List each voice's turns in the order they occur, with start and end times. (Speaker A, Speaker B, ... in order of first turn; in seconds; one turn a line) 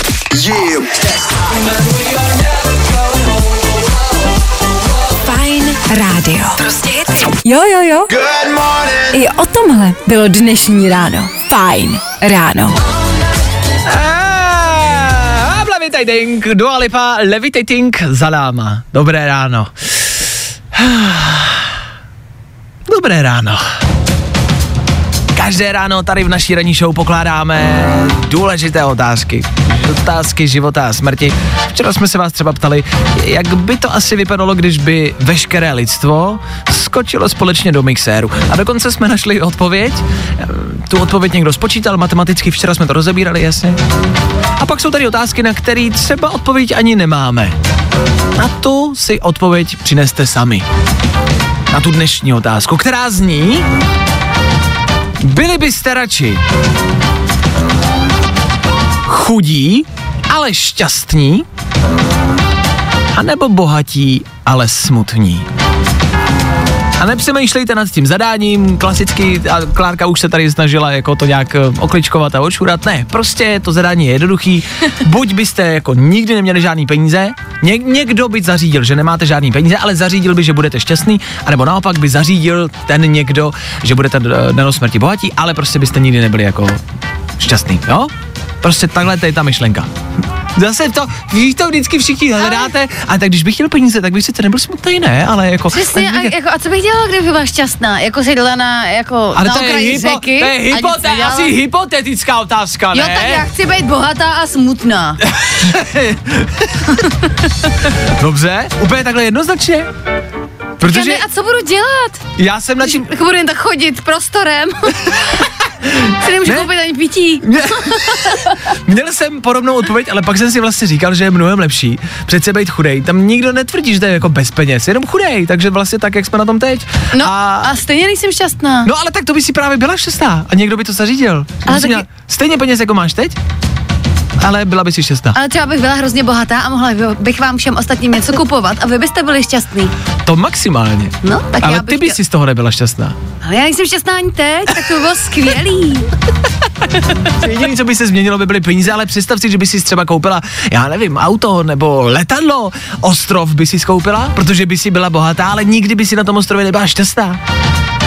Speaker A: 0.3-1.7
Speaker B: 5.2-8.1
Speaker A: 8.1-9.2
Speaker B: 9.1-12.8
Speaker C: 13.9-21.8
Speaker C: 22.9-23.6
Speaker C: 25.3-43.8
Speaker C: 44.6-47.5
Speaker C: 48.4-50.7
Speaker C: 51.7-53.7
Speaker C: 55.2-56.4
Speaker C: 59.0-61.5
Speaker C: 63.1-65.5
Speaker C: 67.0-86.8
Speaker C: 87.4-89.9
Speaker C: 90.5-96.3
Speaker D: 92.4-92.7
Speaker D: 95.7-101.5
Speaker C: 99.3-103.5
Speaker D: 102.9-105.2
Speaker C: 105.3-107.1
Speaker C: 107.9-109.9
Speaker C: 110.8-111.2
Speaker D: 110.8-112.2
Speaker C: 112.4-113.1
Speaker D: 112.8-115.4
Speaker C: 115.8-116.7
Speaker D: 116.1-118.6
Speaker C: 117.4-127.7
Speaker D: 127.1-128.9
Speaker C: 128.8-133.4
Speaker D: 131.7-132.1
Speaker C: 134.4-135.4
Speaker D: 135.3-139.9
Speaker C: 140.2-143.2
Speaker D: 141.2-142.2
Speaker D: 143.4-146.1
Speaker C: 147.3-157.4